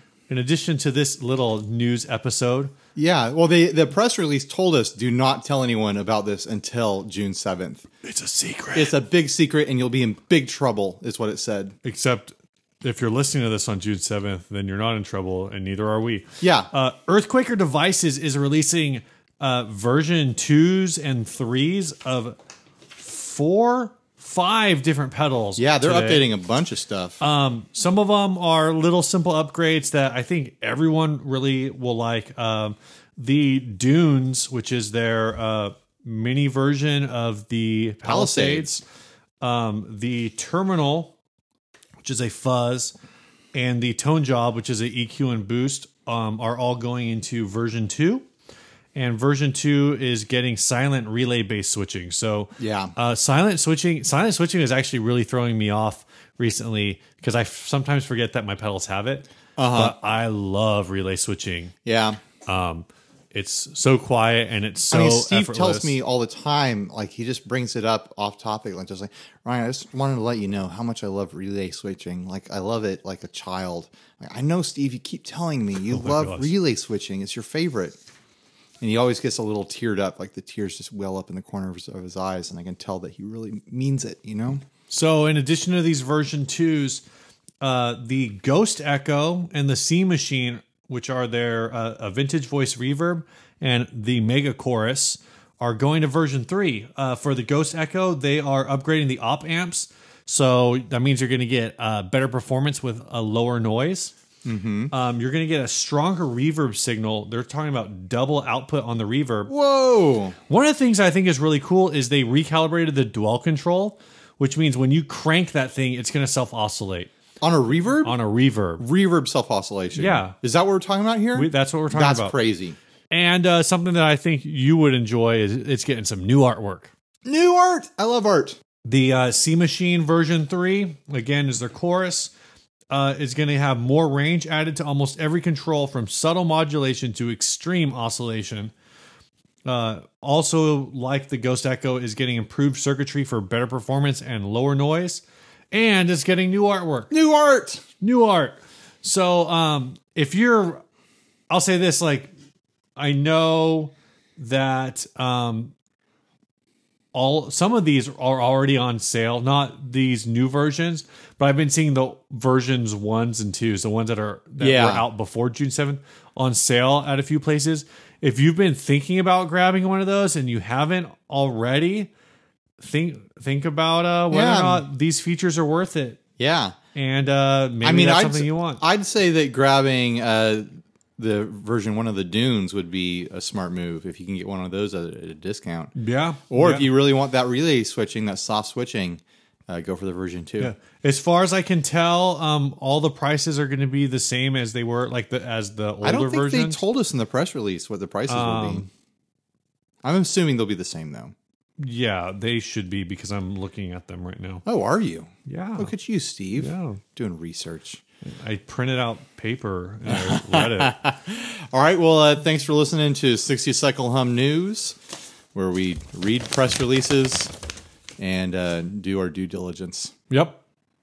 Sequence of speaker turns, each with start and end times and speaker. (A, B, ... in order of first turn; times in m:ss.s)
0:00.3-0:02.7 A
0:02.9-0:07.8 B
0:08.0-0:09.0 A
0:08.7-0:11.8 B
0:11.8-0:22.4 A
0:16.4-0:16.7 B
0:23.0-0:26.3 A
0:25.6-0:27.2 B
0:27.2-0:38.7 A
0:38.0-0:38.8 B
0:39.4-0:41.2 A
0:42.0-0:42.9 A
0:43.5-0:48.2 A
0:48.9-1:01.7 A
0:52.6-0:52.9 B
0:59.6-1:00.0 B
1:01.8-1:02.2 B
1:02.4-1:06.0 A
1:04.9-1:18.0 B
1:15.9-1:16.5 A
1:18.8-1:24.6 B
1:24.9-1:27.0 A
1:27.6-1:44.1 A
1:44.4-1:44.9 B
1:44.9-1:49.5 A
1:49.5-1:50.4 B
1:50.5-1:57.1 A
1:57.4-1:58.2 B
1:58.0-1:58.8 A
1:58.8-2:02.8 B
1:59.9-2:00.4 A
2:01.3-2:02.4 A
2:03.1-2:06.9 A
2:07.2-2:08.6 B
2:08.8-2:12.3 A
2:12.9-2:18.7 A
2:19.6-2:27.1 A
2:27.1-2:27.8 B
2:28.0-2:30.8 A
2:31.5-2:32.3 A
2:33.0-2:35.7 A
2:37.1-2:52.1 A
2:44.6-2:45.0 B
2:52.8-2:56.2 A
2:54.3-2:54.8 B
2:56.4-2:56.8 B
2:56.9-2:58.8 A
2:57.8-3:05.9 B
3:06.0-3:06.9 A
3:06.5-3:10.7 B
3:10.6-3:16.8 A
3:16.0-3:18.8 B
3:18.3-3:18.9 A
3:20.0-3:21.3 B
3:21.8-3:24.6 A
3:24.6-3:28.0 B
3:25.4-3:25.9 A
3:26.5-3:27.0 A
3:28.3-3:31.0 A
3:30.1-3:35.0 B
3:35.5-3:37.5 B
3:38.2-3:40.1 B
3:40.3-3:40.6 A